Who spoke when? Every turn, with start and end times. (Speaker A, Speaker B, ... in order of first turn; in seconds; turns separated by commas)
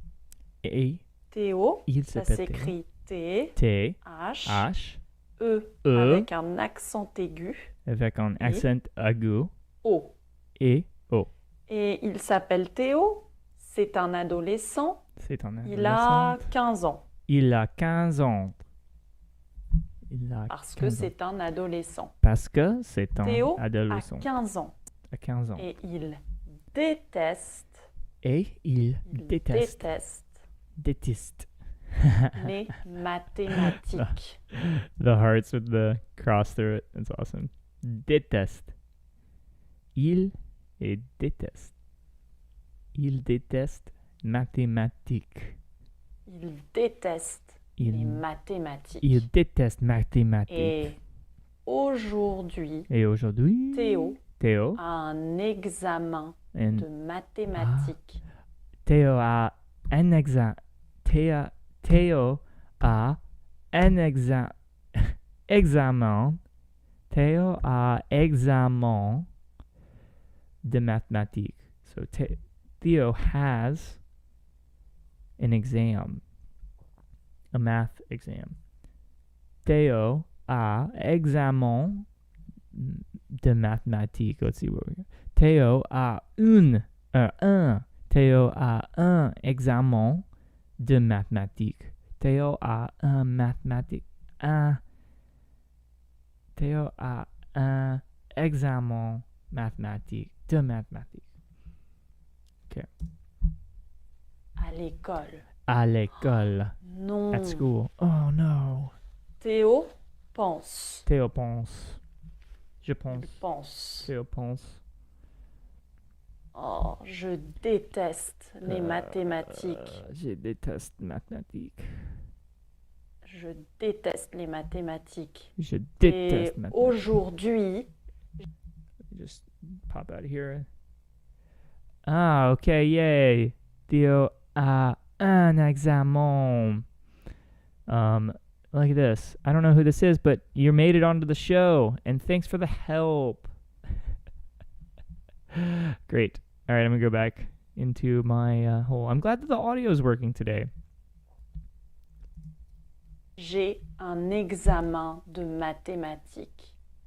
Speaker A: 0.6-1.0, Speaker B: 1.3-4.7, Speaker A: 1.9-2.8, Speaker A: 3.5-5.0, Speaker B: 5.4-7.7, Speaker A: 5.8-6.3, Speaker A: 7.8-9.5, Speaker B: 8.4-8.7, Speaker B: 9.8-10.1, Speaker A: 10.6-11.3, Speaker B: 11.7-15.0, Speaker A: 15.2-16.5, Speaker B: 15.6-17.1, Speaker A: 17.3-18.6, Speaker A: 20.1-21.1, Speaker B: 20.5-22.1, Speaker A: 22.2-24.3, Speaker B: 23.2-24.7, Speaker A: 25.1-25.7, Speaker B: 25.6-27.8, Speaker A: 28.2-29.9, Speaker B: 29.1-30.4, Speaker A: 30.8-32.5, Speaker B: 32.4-34.4, Speaker A: 33.9-38.7, Speaker A: 39.9-41.7, Speaker A: 42.9-45.6, Speaker B: 46.3-49.2, Speaker A: 47.8-48.2, Speaker A: 49.0-50.9, Speaker B: 50.5-51.0, Speaker B: 51.6-52.9, Speaker A: 52.9-54.8, Speaker B: 53.7-54.2, Speaker B: 54.8-58.2, Speaker A: 56.5-56.9, Speaker A: 57.5-58.0, Speaker A: 58.9-63.2, Speaker A: 63.7-66.4, Speaker A: 67.1-69.3, Speaker A: 70.6-74.0, Speaker A: 75.4-76.2, Speaker A: 77.5-78.6, Speaker A: 79.6-82.1, Speaker A: 82.7-90.3, Speaker A: 90.8-94.8, Speaker A: 96.5-101.2, Speaker B: 104.6-105.5, Speaker A: 105.7-106.7, Speaker B: 106.8-107.7, Speaker A: 107.3-108.9, Speaker B: 109.4-111.0, Speaker A: 111.0-112.0, Speaker A: 112.8-113.4, Speaker B: 113.1-114.1, Speaker A: 114.0-114.8, Speaker B: 116.5-120.0, Speaker A: 118.6-121.9, Speaker B: 123.2-125.5, Speaker A: 125.6-127.1, Speaker B: 126.0-127.9, Speaker A: 129.1-130.7, Speaker A: 132.1-136.8, Speaker A: 137.9-143.5, Speaker A: 145.5-150.7, Speaker B: 153.4-156.8